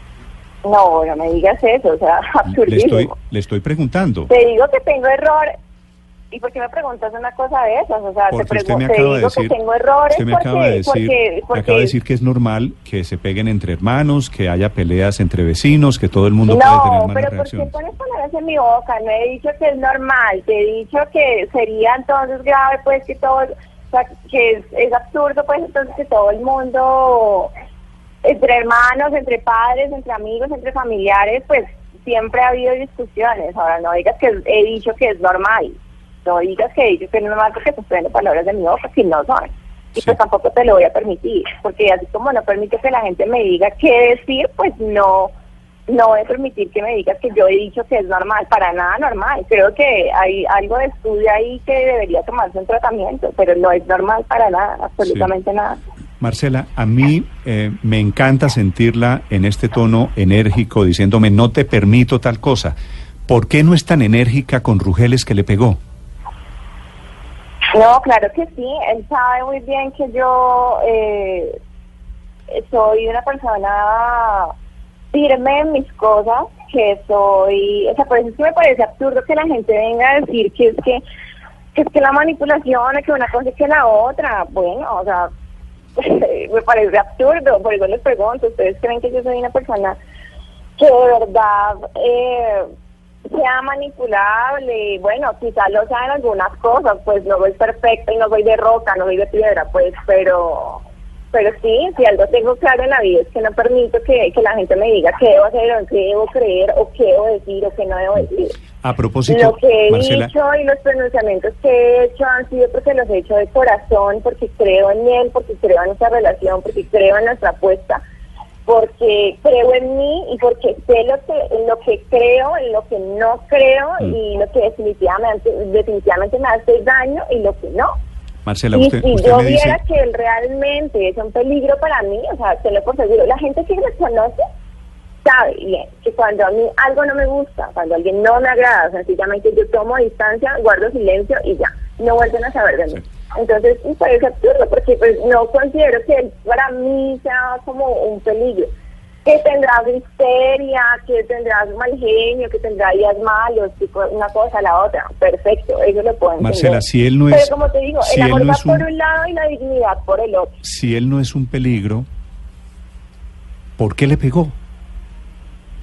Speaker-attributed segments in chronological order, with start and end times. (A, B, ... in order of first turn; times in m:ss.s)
0:00.6-0:03.1 A
0:02.4-0:04.3 B
0:04.3-0:05.5 A
0:06.3-0:11.9 A
0:08.3-0:09.5 B
0:10.1-0:17.7 B
0:16.4-0:27.5 A
0:28.2-0:45.3 A
0:45.9-0:55.8 A
0:55.0-0:55.3 B
0:56.2-1:02.8 B
1:03.3-1:05.8 B
1:07.7-1:11.6 A
1:12.5-1:14.5 A
1:15.1-1:21.0 A
1:21.7-1:25.3 A
1:26.0-1:30.0 A
1:30.8-1:32.7 A
1:33.3-1:48.5 A
1:48.8-1:50.3 B
1:49.3-1:58.0 A
1:58.6-2:07.9 A
2:08.4-2:09.8 B
2:08.7-2:14.5 A
2:15.2-2:28.7 A
2:29.2-2:40.5 A
2:36.4-2:38.8 B
2:40.6-2:42.1 B
2:43.8-2:44.6 B